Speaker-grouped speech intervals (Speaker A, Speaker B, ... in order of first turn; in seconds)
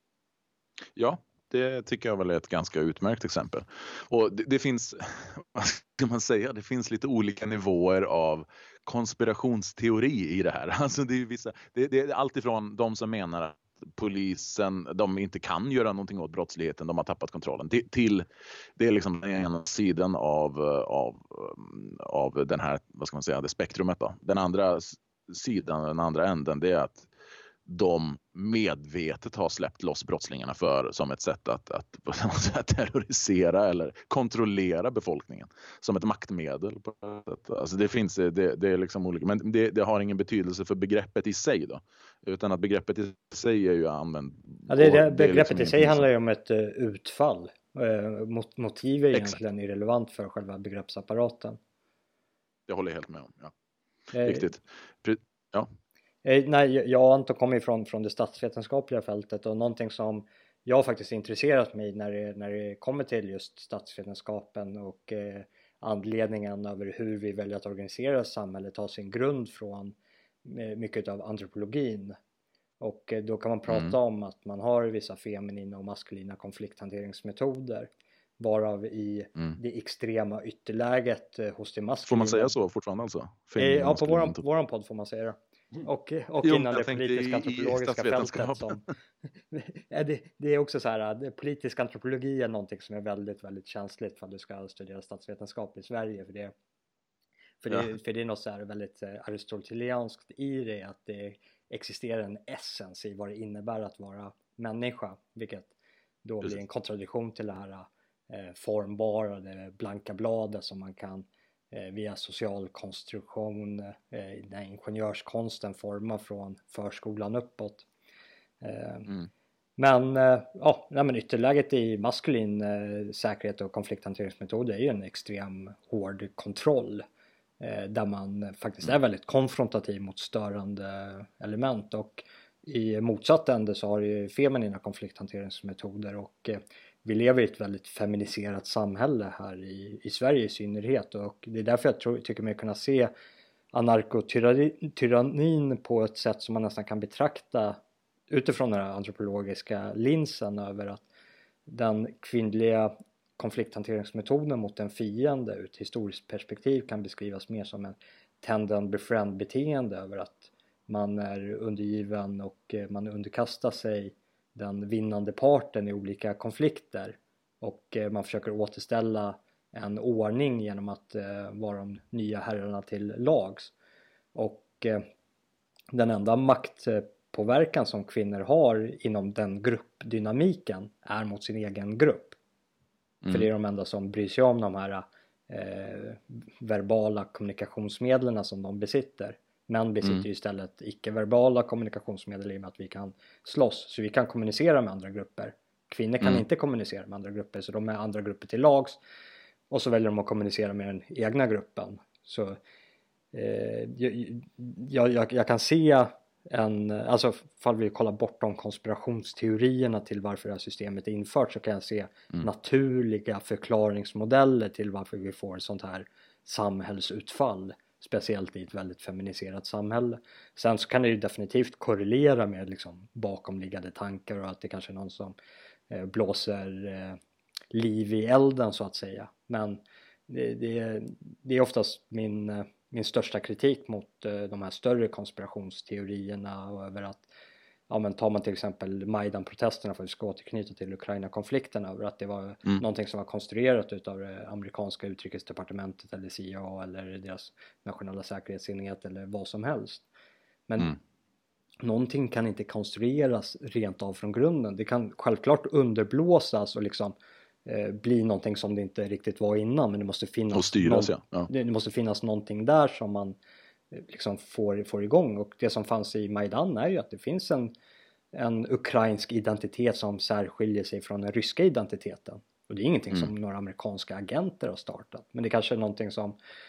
Speaker A: 0.9-27.1, 27.6-46.0, 52.7-53.5, 54.2-55.7, 73.7-73.9, 82.1-84.4, 86.4-88.8, 260.5-261.5
Speaker B: 44.7-51.6, 54.1-54.5, 56.2-72.2, 72.8-82.5, 83.6-88.9, 89.5-96.5, 97.6-105.7, 106.2-117.8, 118.6-119.1, 119.8-127.0, 127.6-143.1, 143.7-147.8, 148.3-151.1, 151.7-173.7, 174.3-175.1, 175.9-182.3, 183.3-199.0, 199.7-202.6, 203.3-225.3, 225.9-227.2, 227.7-237.3, 237.9-250.1, 250.7-251.0, 251.8-257.1, 257.6-263.4, 263.9-267.7, 268.3-276.4